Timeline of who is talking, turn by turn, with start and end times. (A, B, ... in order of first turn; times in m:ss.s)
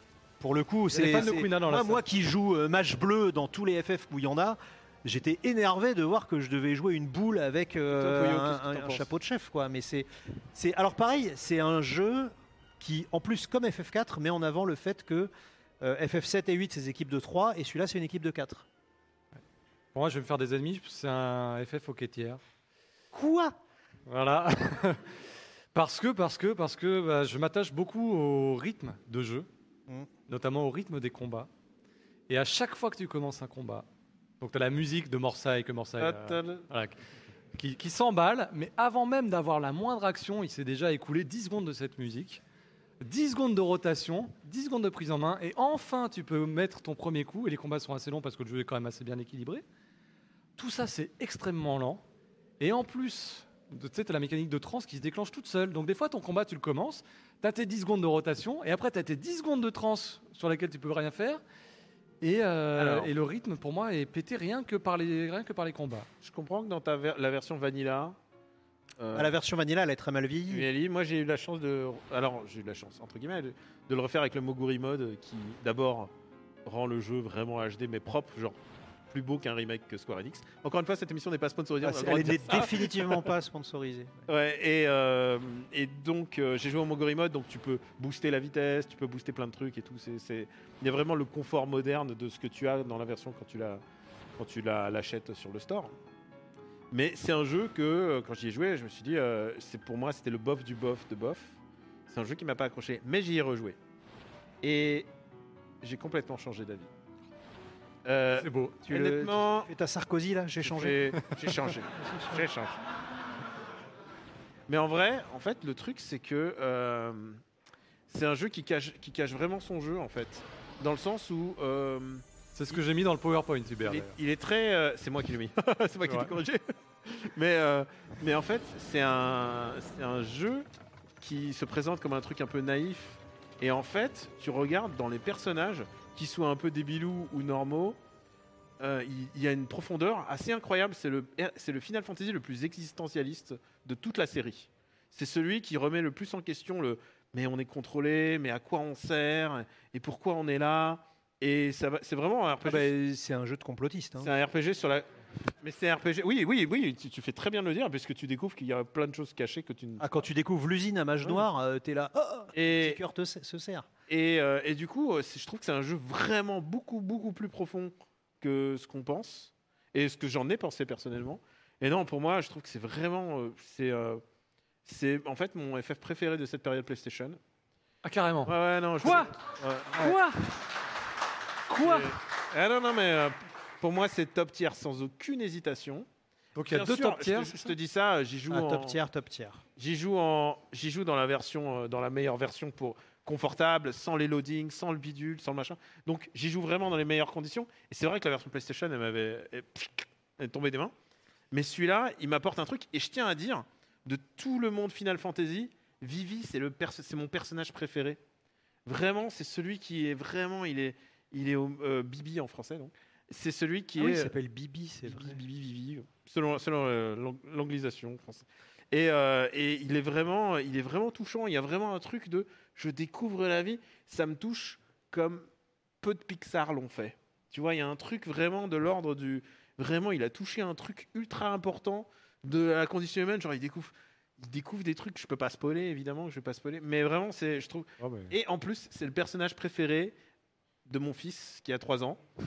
0:00.4-0:18.7 A
0:00.9-0:02.0 B
0:07.9-0:09.1 C
0:20.0-0:22.4 B
0:23.1-0:23.6 A
0:24.1-0:25.2 B
0:25.8-0:29.5 B
0:30.3-0:31.5 B
0:32.3-0:33.9 B
0:34.4-0:37.0 B
0:36.0-0:36.6 C
0:37.5-0:42.4 B
0:43.0-0:49.6 B
0:50.6-0:52.0 B
0:52.6-1:01.4 B
1:02.2-1:06.1 B
1:02.8-1:03.1 C
1:06.2-1:08.2 C
1:09.0-1:09.3 C
1:09.1-1:10.7 A
1:10.5-1:16.1 C
1:16.7-1:18.6 C
1:19.1-1:23.3 C
1:21.8-1:24.3 A
1:24.3-1:33.8 C
1:34.4-1:35.9 C
1:36.9-1:41.6 C
1:42.1-1:43.8 C
1:44.6-1:45.1 C
1:45.8-1:46.9 C
1:48.0-1:49.7 C
1:48.4-1:48.8 B
1:48.9-1:51.1 A
1:50.6-1:52.8 C
1:52.0-1:52.4 A
1:54.7-1:57.4 C
1:58.1-2:02.8 C
2:02.6-2:04.2 B
2:03.8-2:10.7 C
2:06.0-2:06.3 B
2:11.2-2:18.0 C
2:18.8-2:32.9 C
2:32.6-2:34.3 A
2:34.2-2:35.0 C
2:35.6-2:40.1 C
2:40.0-2:43.9 A
2:42.5-2:43.0 C
2:44.1-2:54.2 C
2:54.9-2:57.4 C
2:58.0-2:59.3 B
2:58.5-3:00.2 C
2:59.9-3:00.5 B
3:01.7-3:02.2 B
3:01.8-3:06.1 C
3:06.6-3:07.7 B
3:06.7-3:09.0 C
3:08.5-3:09.6 A
3:09.8-3:20.9 C
3:21.5-3:28.2 C
3:28.9-3:34.3 C
3:34.0-3:35.4 A
3:35.1-3:45.5 C
3:46.0-4:00.2 C
3:58.0-3:58.3 B
4:00.9-4:02.2 C